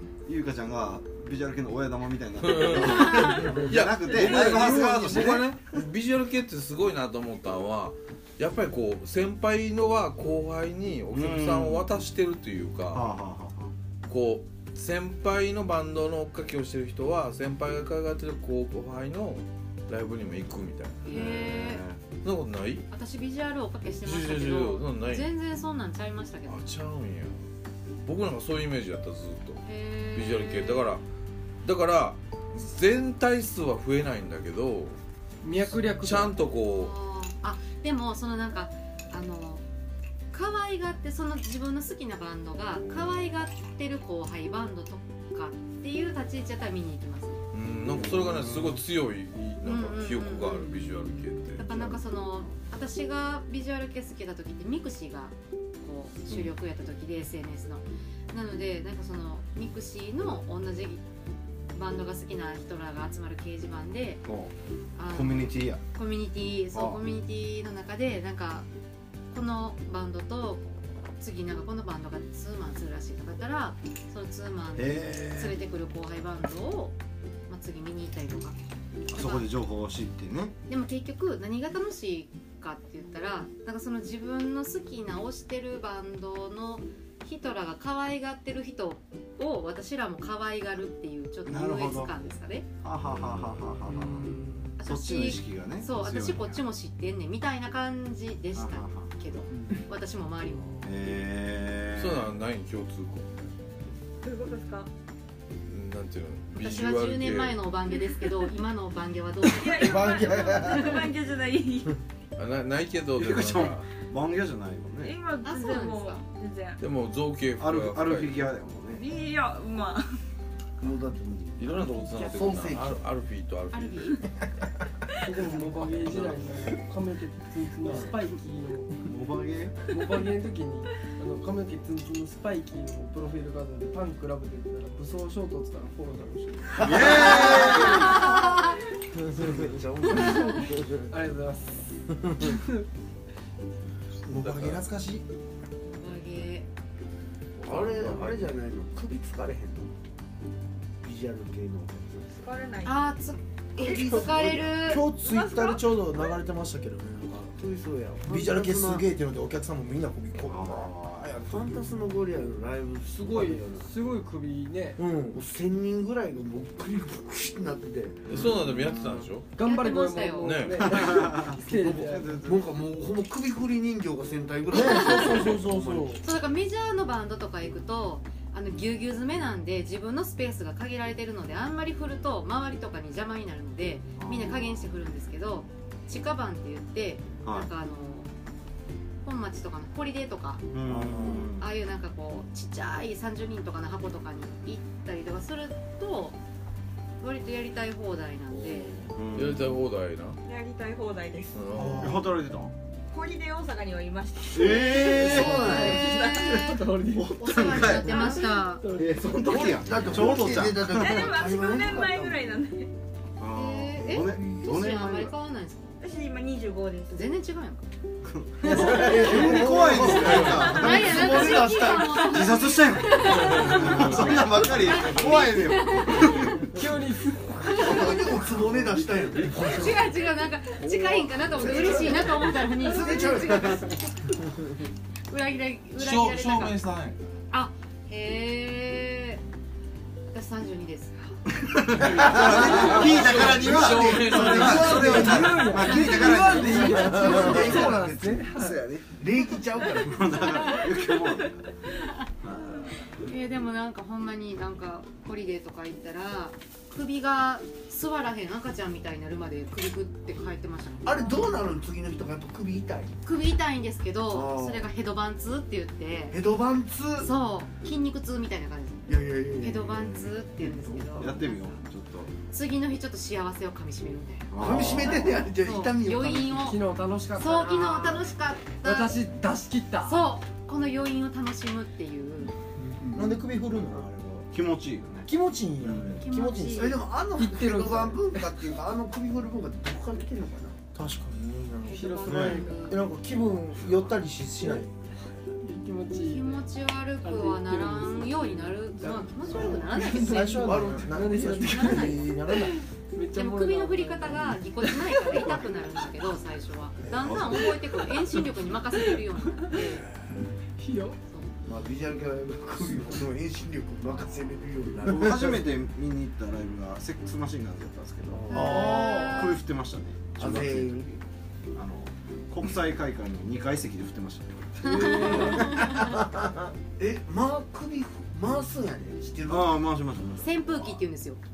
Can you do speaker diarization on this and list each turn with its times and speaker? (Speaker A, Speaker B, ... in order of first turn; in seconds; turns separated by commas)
Speaker A: 0.2-5.8, Speaker B: 2.4-13.1, Speaker A: 11.1-11.9, Speaker A: 12.9-13.7, Speaker B: 14.1-21.1, Speaker C: 21.0-21.8, Speaker A: 21.1-22.0, Speaker B: 22.2-22.8, Speaker C: 22.9-26.6, Speaker B: 24.0-25.3, Speaker B: 26.4-27.4, Speaker B: 28.0-31.0, Speaker C: 29.6-30.9, Speaker B: 31.6-35.0, Speaker D: 35.4-36.4, Speaker B: 35.6-36.9, Speaker C: 36.6-39.6, Speaker C: 40.3-47.4, Speaker B: 47.5-51.6, Speaker A: 47.9-48.8, Speaker C: 49.6-50.8, Speaker C: 51.5-61.0, Speaker C: 61.7-64.2, Speaker A: 64.2-64.5, Speaker C: 65.0-68.7, Speaker A: 65.1-65.8, Speaker A: 66.7-67.0, Speaker C: 69.3-70.6, Speaker C: 71.2-76.9, Speaker A: 74.8-75.6, Speaker C: 77.5-78.5, Speaker A: 79.1-80.5, Speaker C: 79.1-79.5, Speaker C: 80.7-92.7, Speaker A: 91.5-92.2, Speaker A: 92.8-96.6, Speaker B: 93.0-93.8, Speaker C: 94.8-100.9, Speaker A: 98.5-99.1, Speaker E: 99.5-99.8, Speaker A: 100.8-102.3, Speaker B: 102.0-103.5, Speaker F: 104.2-104.9, Speaker B: 105.7-107.6, Speaker C: 106.5-111.1, Speaker F: 109.6-111.9, Speaker G: 109.8-111.1, Speaker B: 112.3-113.8, Speaker A: 113.2-115.2, Speaker F: 115.0-116.8, Speaker C: 115.4-116.2, Speaker B: 116.8-118.5, Speaker A: 117.6-119.1, Speaker F: 119.0-120.2, Speaker E: 120.8-123.0, Speaker B: 121.6-124.2, Speaker D: 125.2-129.0, Speaker A: 129.1-129.8, Speaker D: 129.9-137.2, Speaker E: 136.8-138.1, Speaker A: 136.8-138.2, Speaker C: 137.6-138.6, Speaker E: 139.3-140.7, Speaker G: 140.7-141.0, Speaker D: 141.1-142.8, Speaker B: 144.2-144.9, Speaker G: 144.3-145.2, Speaker C: 145.8-146.7, Speaker B: 147.6-148.4, Speaker E: 147.6-149.9, Speaker E: 151.0-152.6, Speaker F: 152.4-153.0, Speaker C: 152.8-155.0, Speaker F: 153.8-154.1, Speaker E: 153.8-154.8, Speaker G: 154.8-157.6, Speaker F: 155.2-155.8, Speaker E: 157.5-159.1, Speaker G: 158.3-160.9, Speaker A: 160.5-161.4, Speaker E: 161.2-163.9, Speaker D: 163.1-165.0, Speaker G: 165.0-165.4, Speaker E: 165.3-168.3, Speaker B: 168.3-169.5, Speaker A: 168.3-169.2, Speaker D: 169.5-172.4, Speaker C: 169.6-170.7, Speaker B: 170.4-171.3, Speaker A: 171.0-172.8, Speaker E: 171.0-176.2, Speaker G: 174.7-176.2, Speaker C: 174.7-175.6, Speaker C: 176.2-188.3, Speaker A: 184.2-184.9, Speaker A: 187.4-187.7, Speaker C: 189.2-190.6, Speaker A: 190.7-191.7, Speaker G: 190.8-191.5, Speaker C: 191.6-196.4, Speaker C: 197.2-199.0, Speaker G: 198.5-199.2, Speaker A: 199.1-199.7, Speaker B: 199.3-200.4, Speaker F: 200.5-201.6, Speaker B: 201.5-202.2, Speaker A: 201.7-202.7, Speaker G: 201.7-202.2, Speaker F: 203.1-206.5, Speaker A: 204.5-206.1, Speaker C: 205.0-206.6, Speaker E: 205.2-206.3, Speaker D: 205.7-209.7, Speaker A: 207.1-208.2, Speaker C: 207.3-208.9, Speaker A: 208.9-211.3, Speaker E: 209.4-212.5, Speaker F: 211.0-212.9, Speaker A: 213.4-215.3, Speaker C: 213.5-215.9, Speaker E: 214.4-214.8, Speaker F: 216.0-217.2, Speaker C: 217.1-217.8, Speaker A: 218.2-226.8, Speaker G: 218.6-221.2, Speaker E: 218.8-222.6, Speaker C: 218.8-226.6, Speaker B: 220.1-220.8, Speaker B: 223.3-225.3, Speaker D: 226.6-228.1, Speaker C: 227.6-228.2, Speaker E: 227.8-230.1, Speaker C: 229.5-234.3, Speaker B: 231.2-231.6, Speaker E: 231.5-232.2, Speaker E: 232.8-233.9, Speaker C: 235.3-236.8, Speaker B: 235.9-237.2, Speaker C: 237.5-239.4, Speaker C: 240.3-241.3, Speaker A: 241.6-249.1, Speaker B: 242.0-245.7, Speaker E: 242.1-248.5, Speaker D: 244.6-248.9, Speaker G: 246.9-247.6, Speaker E: 249.0-250.2, Speaker A: 250.0-251.7, Speaker C: 250.3-250.9, Speaker C: 253.2-261.5, Speaker E: 261.0-263.1, Speaker C: 263.2-266.4, Speaker E: 264.3-264.9, Speaker E: 266.3-267.3, Speaker C: 267.2-269.0, Speaker E: 269.1-271.4, Speaker C: 269.6-271.8, Speaker A: 270.0-270.3, Speaker A: 271.1-272.3, Speaker C: 272.5-274.5, Speaker A: 274.5-275.5, Speaker E: 274.6-276.7, Speaker C: 275.1-276.8, Speaker D: 276.5-280.3, Speaker C: 277.4-279.1, Speaker C: 280.0-282.5, Speaker E: 283.0-283.4, Speaker G: 283.1-284.5, Speaker A: 284.5-285.3, Speaker G: 285.2-286.9, Speaker A: 285.8-286.2, Speaker C: 286.2-287.0, Speaker E: 286.7-290.8, Speaker D: 287.4-288.5, Speaker G: 290.9-294.9, Speaker C: 291.8-293.0, Speaker D: 291.9-293.0, Speaker D: 295.6-296.6, Speaker C: 296.1-300.9, Speaker D: 297.2-305.6, Speaker E: 299.0-301.5, Speaker G: 299.6-302.7, Speaker C: 301.5-302.3, Speaker C: 303.3-310.0, Speaker A: 307.1-307.9, Speaker E: 307.2-307.6, Speaker D: 307.9-308.4, Speaker D: 309.6-309.9, Speaker D: 310.8-311.2, Speaker E: 311.6-315.6, Speaker A: 314.1-314.4, Speaker A: 315.0-321.1, Speaker E: 318.3-319.6, Speaker C: 318.5-319.6, Speaker E: 320.4-321.2, Speaker A: 321.7-326.1, Speaker D: 324.8-325.8, Speaker C: 324.9-326.1, Speaker E: 325.0-325.6, Speaker E: 327.0-329.8, Speaker A: 329.4-331.0, Speaker C: 330.4-331.4